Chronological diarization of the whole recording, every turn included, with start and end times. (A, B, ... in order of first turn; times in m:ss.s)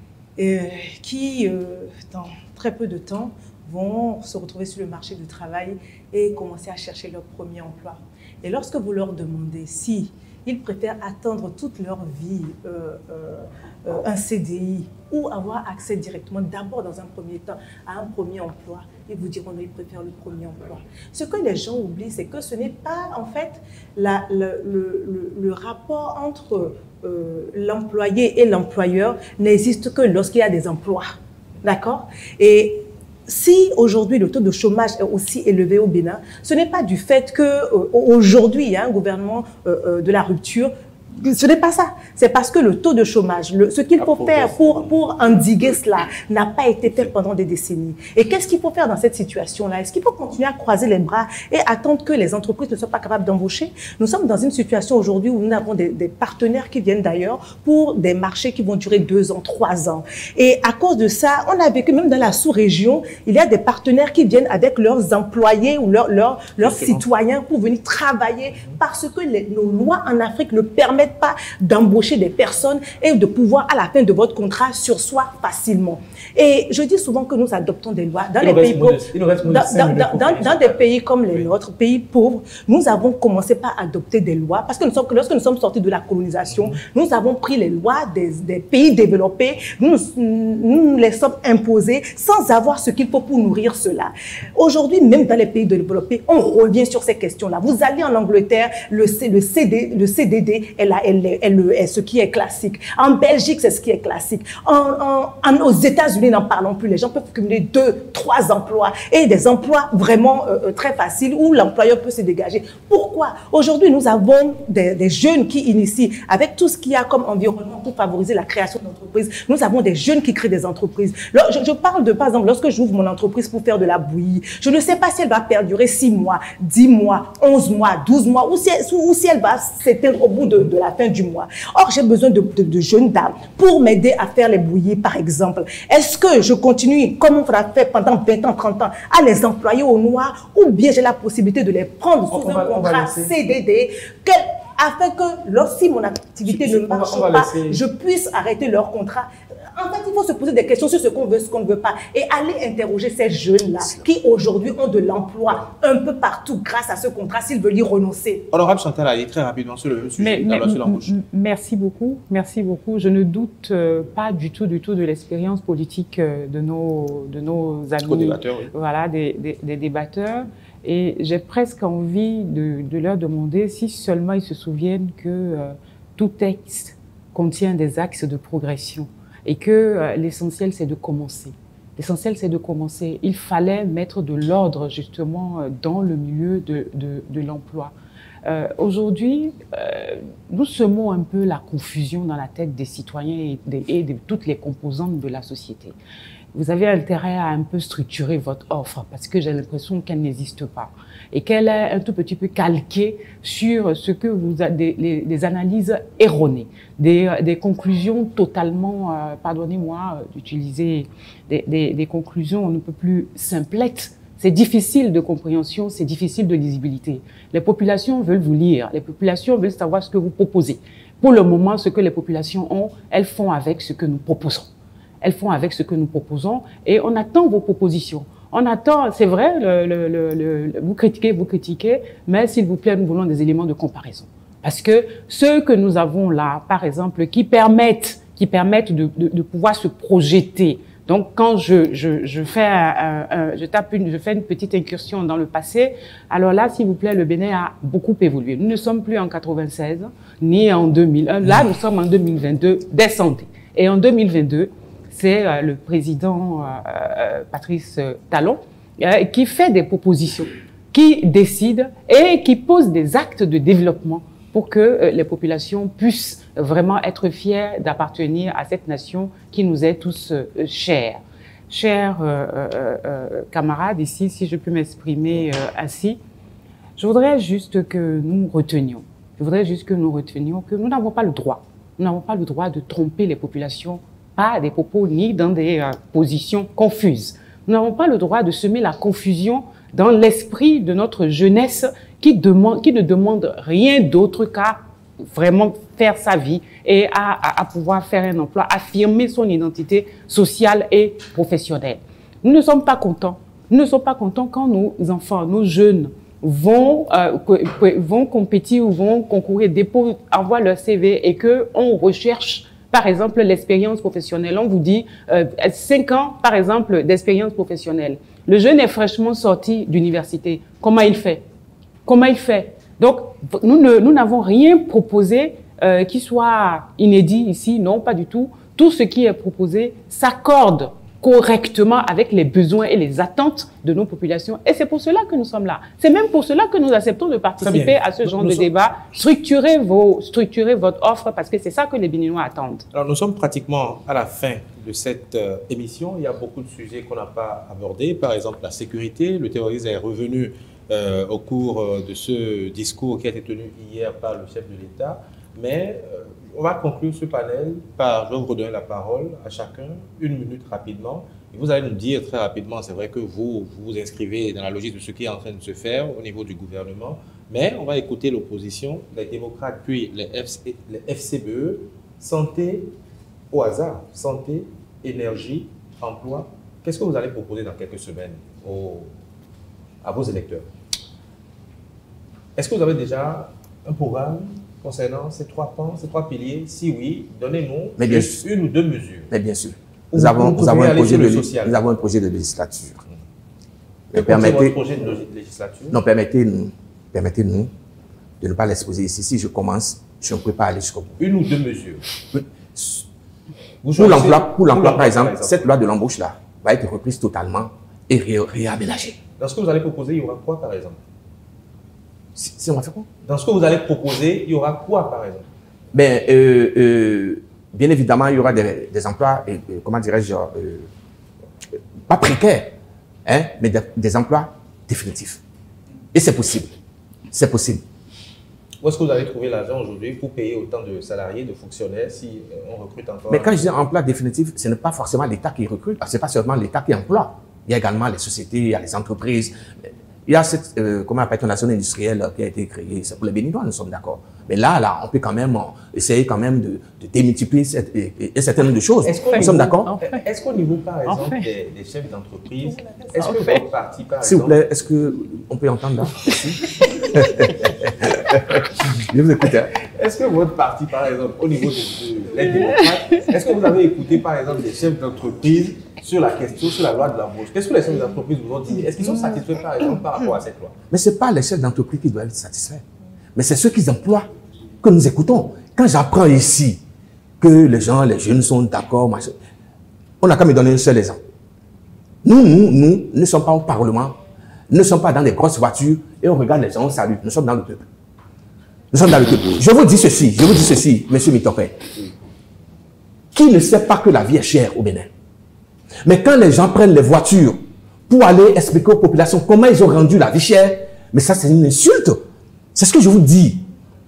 0:00.4-2:38.5 A
0:44.0-0:45.1 B
1:06.6-1:07.0 B
1:08.5-1:08.8 B
1:18.4-1:21.5 B
1:26.5-1:26.8 B
2:22.3-2:23.3 B
2:26.4-2:27.8 B
2:38.5-2:41.1 B
2:40.2-3:07.9 C
2:48.0-2:48.7 B
3:08.4-3:15.9 C
3:16.5-4:36.2 C
4:37.0-4:54.8 C
4:55.3-5:21.4 C
5:22.0-5:42.8 C
5:37.6-5:38.7 B
5:42.9-6:12.9 B
6:13.5-6:19.1 B
6:20.0-6:20.6 B
6:22.6-6:29.3 B
6:28.0-6:28.4 D
6:29.3-6:33.0 D
6:30.1-6:31.8 B
6:34.1-6:34.8 D
6:34.1-6:36.0 B
6:35.9-6:37.7 D
6:38.4-6:41.2 D
6:41.2-6:42.0 B
6:42.3-6:43.0 D
6:43.8-6:45.7 B
6:44.0-6:49.2 D
6:49.4-6:51.0 B
6:52.4-6:53.1 D
6:53.2-6:55.5 B
6:55.9-7:00.9 D
7:02.1-7:05.4 D
7:06.1-7:06.7 D
7:07.3-7:07.8 D
7:08.8-7:13.6 B
7:13.3-7:29.9 D
7:29.0-7:34.6 B
7:29.3-7:30.2 C
7:31.1-7:31.4 C
7:32.7-7:33.1 A
7:33.2-7:33.6 C
7:34.2-7:39.7 D
7:39.8-7:50.8 B
7:50.9-7:52.8 D
7:53.3-7:54.3 D
7:54.8-7:56.8 D
7:57.4-7:59.3 D
8:00.2-8:01.2 D
8:02.2-8:04.2 D
8:04.7-8:07.9 D
8:08.9-8:12.0 D
8:13.3-8:15.1 D
8:16.0-8:22.2 D
8:22.7-8:23.7 D